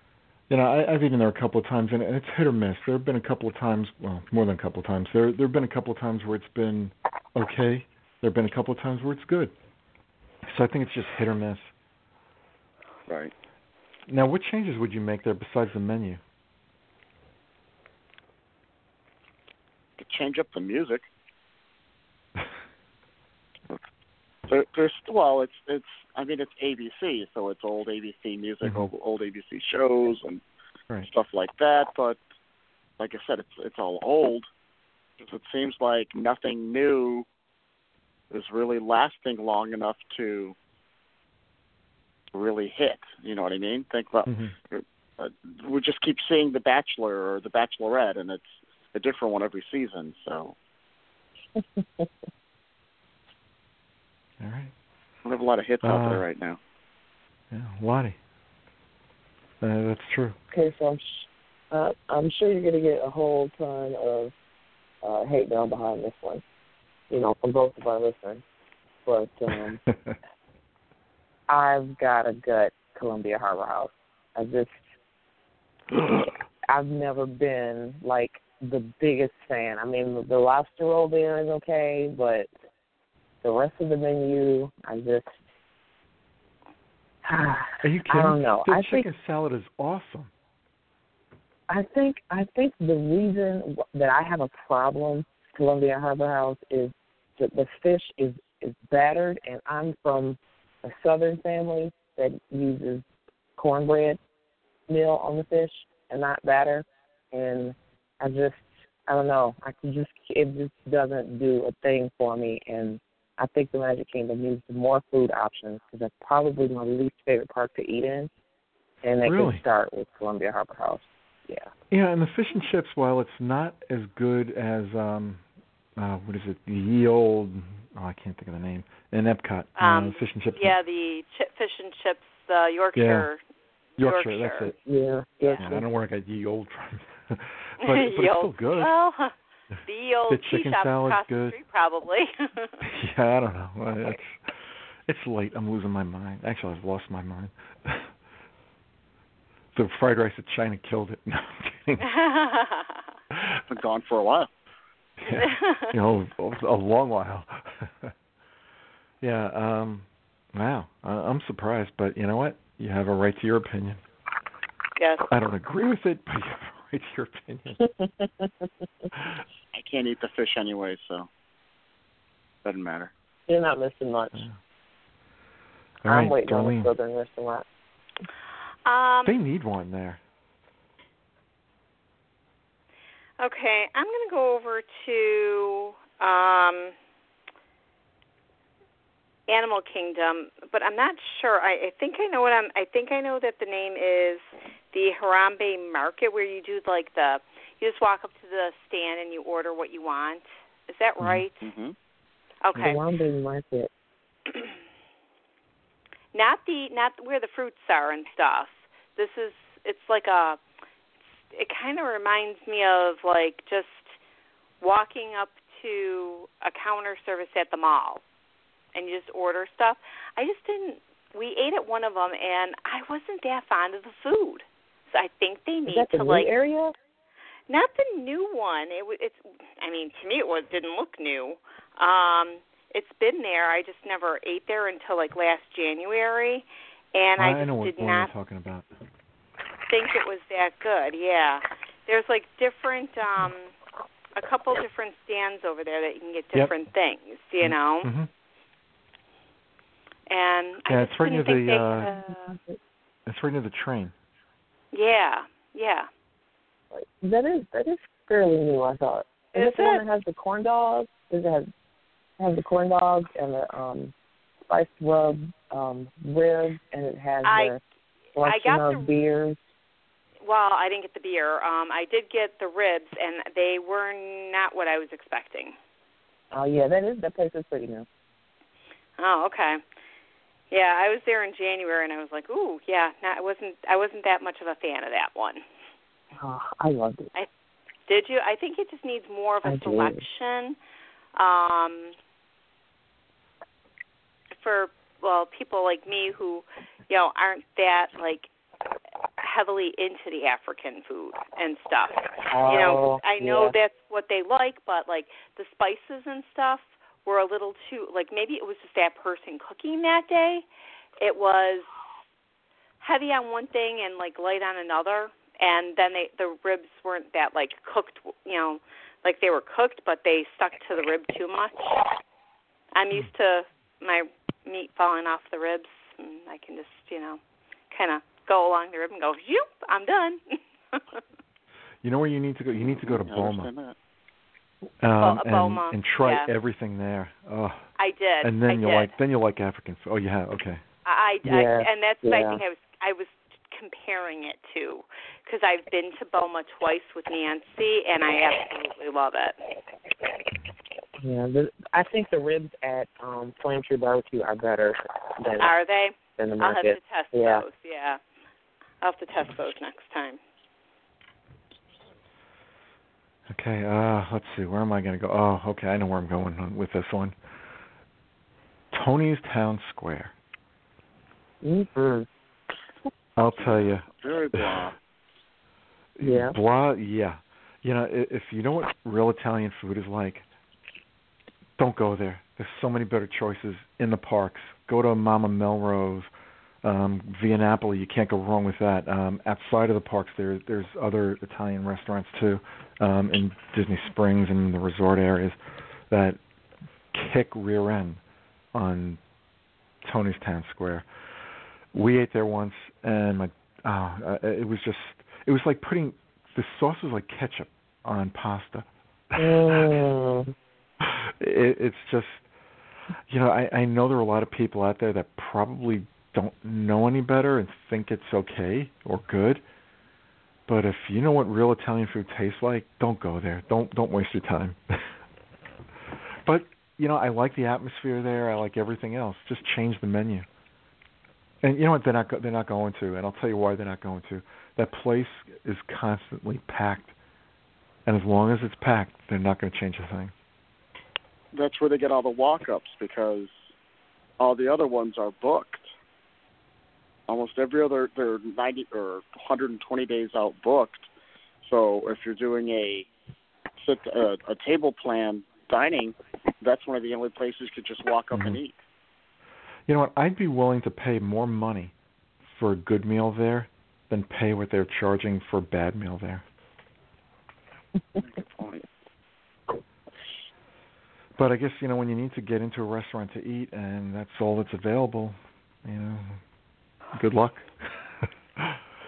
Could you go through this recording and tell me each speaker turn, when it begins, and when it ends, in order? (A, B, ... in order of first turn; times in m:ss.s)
0:00.5-0:09.5 A
0:10.5-0:11.7 A
0:13.1-0:13.3 B
0:14.1-0:16.2 A
0:20.0-0:21.1 B
0:24.5-0:30.4 B
0:28.6-0:28.9 A
0:31.1-0:32.2 B
0:33.0-0:34.5 B
0:35.2-0:37.3 B
0:38.3-0:40.6 B
0:42.3-0:50.6 B
0:44.3-0:44.6 A
0:51.6-0:52.1 C
0:54.4-0:54.7 A
0:55.2-0:56.6 B
0:55.8-0:56.2 A
0:57.5-0:58.2 A
0:59.6-1:00.4 A
1:00.5-1:04.3 C
1:05.0-1:06.4 C
1:07.1-1:08.4 C
1:09.1-1:09.8 C
1:11.5-1:14.8 C
1:16.7-1:22.5 C
1:23.4-1:25.3 C
1:27.2-1:29.1 C
1:27.8-1:30.3 A
1:31.7-1:43.0 C
1:43.6-1:44.2 C
1:44.9-1:58.3 C
1:59.0-2:01.7 C
1:59.2-1:59.6 A
2:01.9-2:05.4 A
2:06.0-2:10.8 A
2:09.8-2:13.4 D
2:13.0-2:13.3 A
2:14.0-2:14.8 A
2:14.0-2:14.7 D
2:14.8-2:15.9 C
2:15.6-2:18.9 A
2:17.8-2:19.3 D
2:19.8-2:22.8 D
2:20.3-2:21.6 A
2:22.8-2:24.5 A
2:25.1-2:28.1 A
2:29.8-2:32.1 A
2:32.0-2:33.0 D
2:33.3-2:33.6 A
2:33.7-2:34.5 B
2:35.2-2:38.1 A
2:35.3-2:35.9 D
2:39.2-2:44.0 A
2:45.0-2:45.3 D
2:45.3-2:47.8 A
2:47.8-2:48.5 C
2:49.7-2:51.3 B
2:52.6-2:53.1 B
2:53.5-2:54.5 C
2:56.0-2:56.9 A
2:56.1-2:57.6 C
2:58.9-2:59.4 D
2:59.2-3:00.2 A
3:03.4-3:06.9 D
3:09.5-3:21.7 D
3:21.6-3:22.0 B
3:22.6-3:23.0 D
3:22.8-3:23.9 C
3:26.3-3:30.6 D
3:31.5-3:34.2 D
3:34.8-3:38.2 D
3:38.9-3:46.5 D
3:45.9-3:46.9 C
3:47.7-3:58.3 D
3:57.4-3:58.9 A
3:59.9-4:03.8 D
4:04.4-4:08.1 D
4:07.6-4:08.3 A
4:10.3-4:12.6 D
4:10.9-4:12.1 A
4:13.3-4:14.1 A
4:14.9-4:16.1 D
4:16.9-4:21.7 C
4:19.6-4:20.0 D
4:22.4-4:24.1 C
4:24.7-4:27.8 C
4:27.4-4:27.8 D
4:28.4-4:29.6 C
4:28.4-4:29.1 D
4:30.4-4:35.8 D
4:36.5-4:38.1 C
4:39.2-4:39.8 D
4:40.7-4:45.6 D
4:46.4-4:47.3 C
4:48.1-4:50.8 D
4:49.6-4:50.2 C
4:51.4-4:52.2 D
4:54.5-4:58.5 D
4:59.4-5:10.6 D
5:02.5-5:03.8 C
5:11.2-5:11.9 D
5:13.0-5:22.0 D
5:22.9-5:27.4 D
5:27.9-5:31.2 D
5:32.0-5:33.7 A
5:32.8-5:34.0 B
5:35.0-5:37.9 A
5:35.2-5:36.5 D
5:38.0-5:39.1 D
5:38.4-5:40.8 A
5:41.0-5:49.6 D
5:41.4-5:42.6 C
5:51.2-5:55.7 C
5:55.6-5:58.2 D
5:56.4-5:57.6 C
5:59.0-6:00.4 D
6:03.5-6:07.4 A
6:08.9-6:10.3 A
6:11.6-6:12.3 C
6:13.4-6:14.8 A
6:13.6-6:15.0 B
6:16.2-6:20.5 A
6:16.2-6:16.6 C
6:21.8-6:26.3 A
6:26.8-6:35.6 A
6:36.1-6:36.4 A
6:37.1-6:38.2 A
6:38.7-6:39.2 A
6:40.0-6:41.1 A
6:41.9-6:50.0 A
6:49.4-6:50.5 C
6:51.0-6:52.5 A
6:53.3-6:59.6 A
7:00.7-7:05.0 A
7:06.4-7:10.5 A
7:11.6-7:17.1 A
7:18.0-7:20.3 A
7:21.5-7:23.7 B
7:24.4-7:25.9 B
7:27.3-7:31.1 B
7:31.6-7:33.1 B
7:33.8-7:38.8 B
7:38.3-7:38.6 A
7:39.9-7:41.9 A
7:42.4-7:46.4 A
7:48.2-7:48.9 B
7:51.4-7:56.4 A
7:57.1-7:58.1 A